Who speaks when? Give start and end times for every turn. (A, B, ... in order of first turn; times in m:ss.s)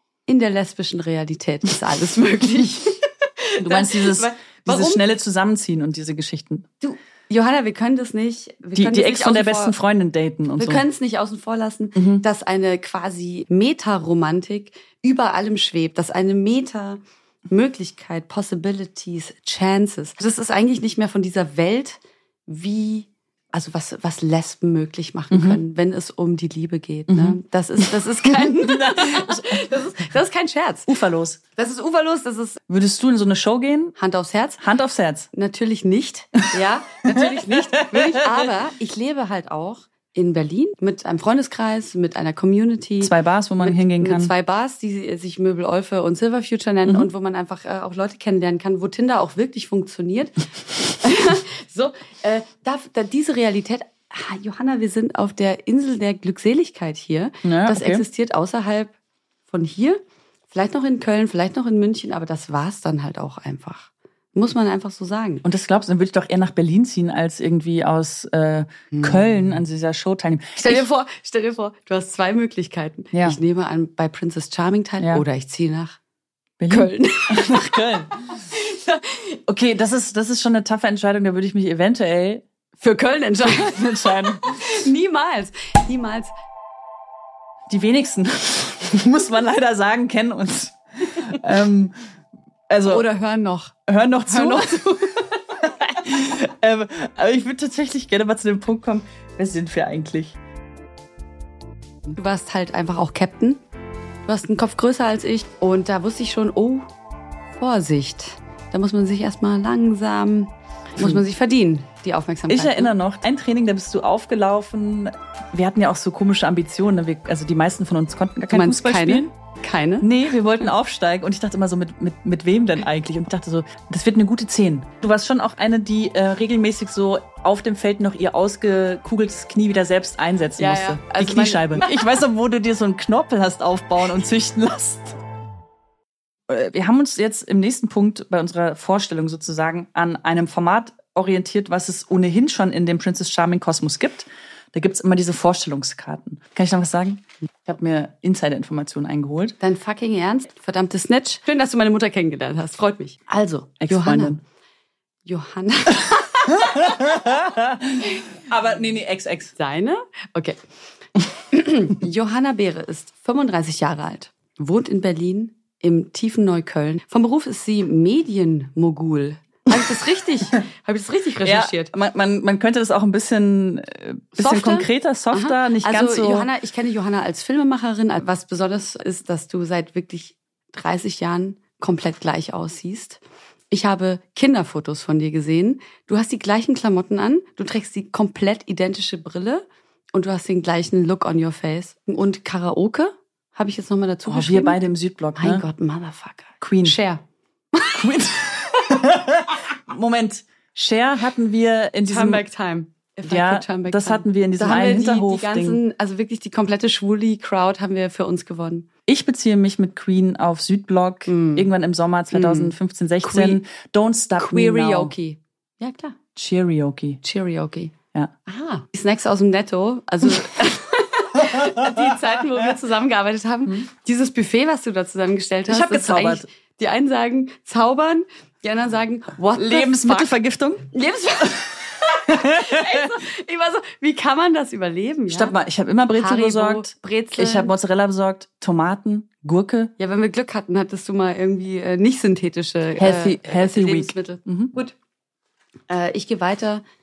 0:00.3-0:05.0 A
0:03.6-0:06.7 B
0:06.8-0:09.7 A
0:08.8-0:10.8 B
0:10.6-0:30.9 A
0:12.0-0:12.2 B
0:25.3-0:25.6 B
0:27.1-0:27.4 B
0:28.2-0:29.6 B
0:30.9-0:31.4 B
0:31.6-0:32.6 A
0:32.7-0:33.9 B
0:34.0-0:34.6 A
0:34.6-0:35.3 B
0:35.3-0:58.9 A
0:37.1-0:38.4 B
0:43.0-0:44.3 B
0:57.4-0:58.0 B
0:59.5-1:00.0 A
1:00.5-1:05.4 A
1:05.4-1:10.8 B
1:08.9-1:09.4 A
1:10.6-1:16.0 A
1:13.1-1:13.4 B
1:15.0-1:15.2 B
1:16.6-1:18.1 B
1:16.7-1:19.4 A
1:19.5-1:22.4 B
1:22.8-1:26.3 A
1:23.4-1:24.6 B
1:27.7-1:32.0 B
1:32.7-1:33.0 B
1:32.8-1:35.3 A
1:33.9-1:34.9 B
1:35.6-1:40.4 B
1:42.1-1:43.6 A
1:44.3-1:46.9 A
1:47.5-1:52.9 A
1:51.0-1:51.2 B
1:52.5-1:59.3 B
1:58.5-2:00.1 A
2:00.0-2:15.2 B
2:10.6-2:11.8 A
2:16.5-2:29.6 B
2:29.6-2:34.4 A
2:33.8-2:34.4 B
2:35.2-2:37.1 A
2:36.7-2:39.5 B
2:39.6-2:40.6 A
2:41.5-2:51.9 A
2:51.4-2:56.5 B
2:54.4-3:14.8 A
3:14.2-3:15.6 B
3:15.4-3:17.2 A
3:16.6-3:17.0 B
3:17.9-3:22.4 B
3:22.0-3:28.9 A
3:23.2-3:25.8 B
3:29.1-3:35.1 B
3:31.3-3:31.7 A
3:32.3-3:33.6 A
3:34.4-3:36.2 A
3:36.4-3:37.2 B
3:37.2-3:37.9 A
3:38.5-3:50.3 A
3:45.7-3:46.5 B
3:49.6-3:50.9 B
3:50.9-3:55.6 A
3:52.2-3:53.0 B
3:55.3-3:59.9 B
3:56.1-3:57.7 A
4:00.0-4:04.9 A
4:03.0-4:04.7 B
4:05.9-4:06.8 A